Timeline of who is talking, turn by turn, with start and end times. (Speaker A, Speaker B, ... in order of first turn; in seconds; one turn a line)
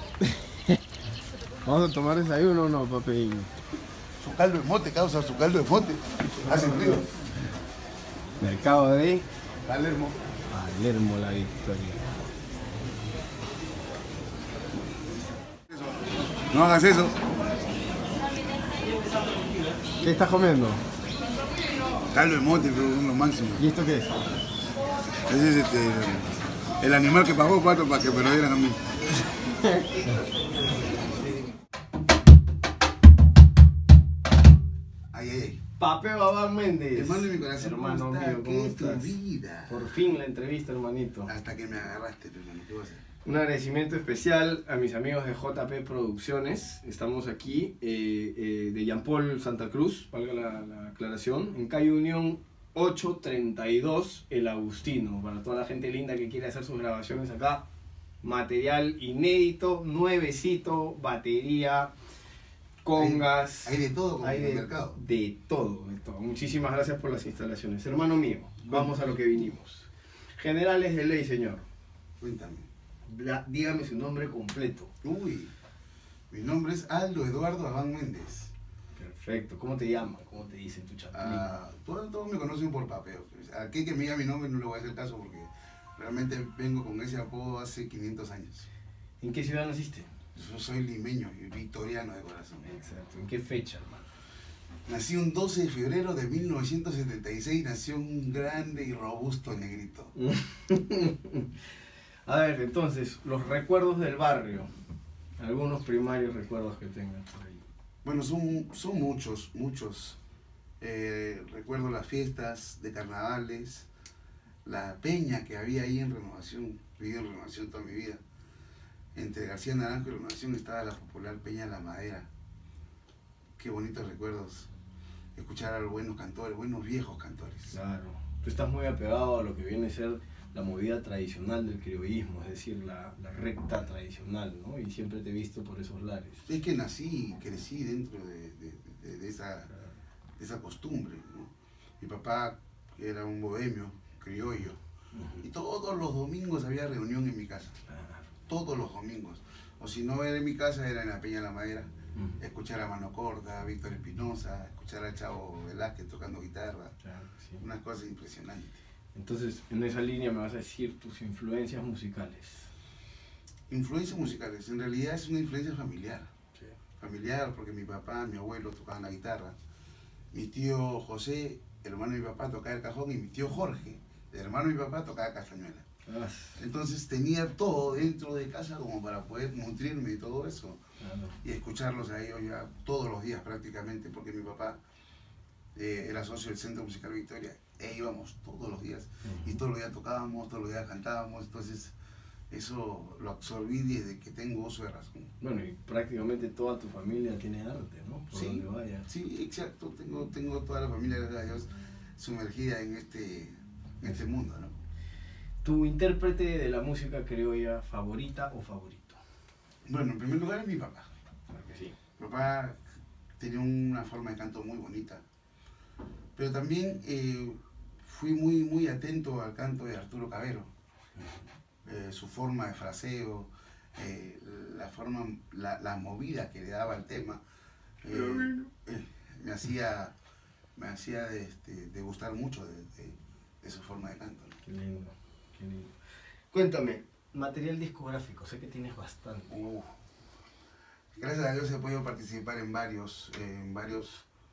Speaker A: 0.2-0.8
Speaker A: 1.6-3.5
Speaker B: 4.2-7.1
Speaker A: 6.4-7.2
Speaker A: 8.4-9.2
Speaker B: 9.7-10.2
Speaker A: 10.5-12.0
Speaker B: 16.5-17.2
Speaker A: 20.0-20.8
Speaker B: 22.1-23.7
Speaker A: 23.6-24.3
Speaker B: 25.3-28.8
Speaker B: 35.1-35.6
Speaker A: 35.8-39.1
Speaker B: 36.9-40.0
Speaker A: 39.7-41.3
Speaker B: 41.2-43.0
Speaker A: 43.2-57.6
Speaker A: 58.2-61.9
Speaker A: 62.8-71.6
Speaker B: 62.9-65.0
Speaker B: 68.7-69.4
Speaker B: 72.2-72.7
Speaker A: 73.1-74.9
Speaker B: 75.0-75.5
Speaker B: 76.3-78.5
Speaker A: 79.0-81.5
Speaker B: 81.1-88.7
Speaker A: 89.2-90.1
Speaker B: 90.3-92.7
Speaker A: 92.6-94.1
Speaker B: 94.9-100.1
Speaker A: 100.2-101.5
Speaker A: 102.2-104.7
Speaker A: 105.4-107.6
Speaker B: 108.0-110.2
Speaker B: 110.8-113.9
Speaker B: 114.6-118.2
Speaker B: 119.1-122.3
Speaker B: 123.6-124.7
Speaker B: 125.3-127.8
Speaker A: 127.7-136.4
Speaker B: 136.5-139.7
Speaker B: 140.4-144.8
Speaker A: 145.1-145.4
Speaker B: 145.4-147.8
Speaker A: 147.8-148.3
Speaker B: 148.5-156.9
Speaker A: 157.0-157.6
Speaker B: 157.6-158.8
Speaker A: 159.1-162.7
Speaker B: 163.7-166.3
Speaker B: 167.0-169.6
Speaker B: 170.3-175.8
Speaker A: 176.1-176.6
Speaker B: 176.6-180.8
Speaker A: 181.0-181.4
Speaker B: 181.4-184.8
Speaker B: 185.7-191.9
Speaker A: 189.2-189.6
Speaker B: 192.5-195.3
Speaker A: 195.4-199.1
Speaker B: 198.3-204.8
Speaker A: 205.6-209.2
Speaker B: 209.8-211.1
Speaker A: 211.5-211.9
Speaker B: 212.2-212.8
Speaker B: 213.4-215.2
Speaker B: 216.3-220.7
Speaker B: 221.8-227.4
Speaker B: 228.0-230.1
Speaker A: 228.1-228.7
Speaker B: 230.8-234.6
Speaker A: 234.6-235.9
Speaker A: 236.5-239.6
Speaker B: 239.5-239.9
Speaker B: 241.2-244.2